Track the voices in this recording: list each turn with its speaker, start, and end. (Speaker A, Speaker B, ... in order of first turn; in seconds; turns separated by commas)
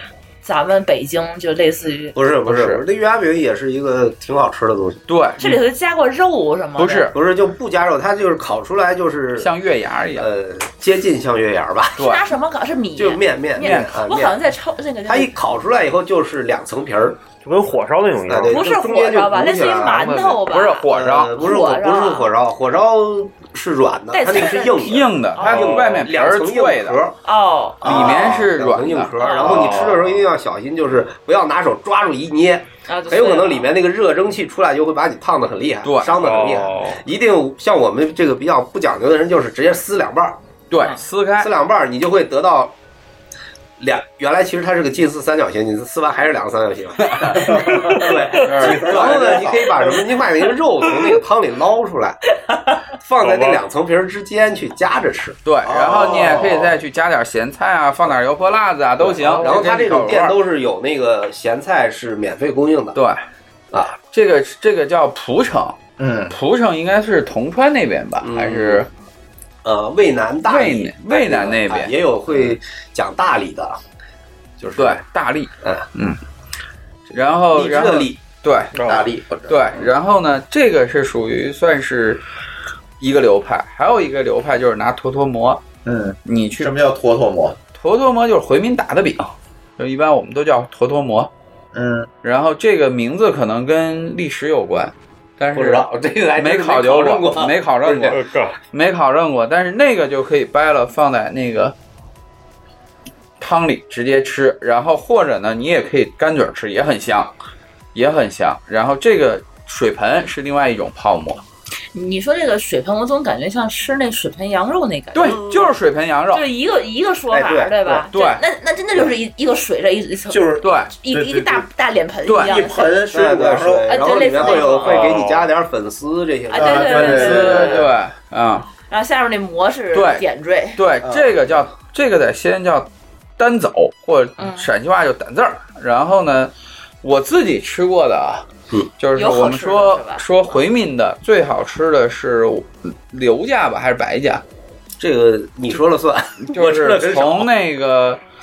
Speaker A: 0.4-2.2, Speaker B: 2.1-5.0, Speaker C: 2.4-2.8, Speaker C: 5.1-5.6, Speaker A: 5.4-7.1, Speaker C: 6.8-7.2, Speaker B: 7.1-9.5, Speaker C: 9.4-10.3, Speaker B: 10.1-12.0, Speaker C: 12.0-12.2, Speaker A: 12.0-15.3, Speaker B: 13.0-14.4, Speaker C: 13.6-13.9, Speaker B: 15.1-17.2, Speaker D: 17.4-18.6, Speaker B: 18.3-20.1, Speaker A: 18.5-22.3, Speaker D: 19.6-20.4, Speaker C: 20.5-21.3, Speaker B: 20.9-27.1, Speaker A: 24.1-25.8, Speaker C: 24.8-27.0, Speaker A: 27.2-28.0, Speaker C: 27.8-29.1, Speaker B: 27.8-40.4, Speaker E: 27.9-28.5, Speaker A: 29.2-29.8, Speaker D: 29.4-30.2, Speaker A: 32.9-33.7, Speaker C: 35.8-36.2, Speaker D: 36.1-37.0, Speaker C: 40.7-41.5, Speaker B: 41.4-42.7, Speaker B: 43.8-52.2, Speaker E: 47.4-47.8, Speaker C: 48.4-49.3, Speaker E: 48.5-49.7, Speaker B: 53.0-55.4, Speaker D: 53.2-53.6, Speaker C: 55.4-60.4, Speaker E: 55.6-56.8, Speaker D: 59.1-59.6, Speaker B: 59.3-63.0, Speaker C: 62.9-63.2, Speaker B: 63.7-64.0, Speaker C: 64.1-65.8, Speaker E: 66.0-66.3, Speaker C: 66.3-68.9, Speaker B: 68.2-68.8, Speaker B: 69.6-73.8, Speaker C: 70.4-71.9, Speaker B: 74.6-75.0, Speaker C: 74.8-76.2, Speaker C: 77.1-78.7, Speaker B: 77.5-78.2, Speaker D: 78.7-79.1, Speaker E: 78.8-79.8, Speaker C: 79.5-82.2, Speaker C: 83.0-85.6, Speaker E: 85.8-87.6, Speaker C: 86.2-86.7, Speaker C: 87.7-91.3, Speaker E: 91.7-92.1, Speaker C: 92.2-98.2, Speaker B: 95.5-97.5, Speaker D: 97.8-98.5, Speaker C: 98.7-101.7, Speaker C: 103.4-107.3, Speaker C: 107.9-111.4, Speaker A: 111.9-115.5, Speaker C: 115.1-116.4, Speaker B: 115.2-115.7, Speaker A: 116.3-123.0, Speaker B: 117.3-118.0, Speaker C: 118.1-118.4, Speaker E: 120.3-121.7, Speaker C: 120.6-120.9, Speaker C: 122.2-122.5, Speaker E: 122.4-124.7, Speaker B: 123.1-127.9, Speaker A: 123.9-125.2, Speaker D: 124.7-125.5, Speaker A: 126.5-127.8, Speaker E: 126.5-127.8, Speaker C: 127.1-128.7, Speaker A: 128.9-130.8, Speaker C: 129.9-130.2, Speaker C: 130.8-138.4, Speaker E: 131.0-131.4, Speaker A: 134.4-134.7, Speaker C: 139.0-144.4, Speaker A: 139.2-140.6, Speaker B: 145.0-147.5, Speaker C: 146.5-148.2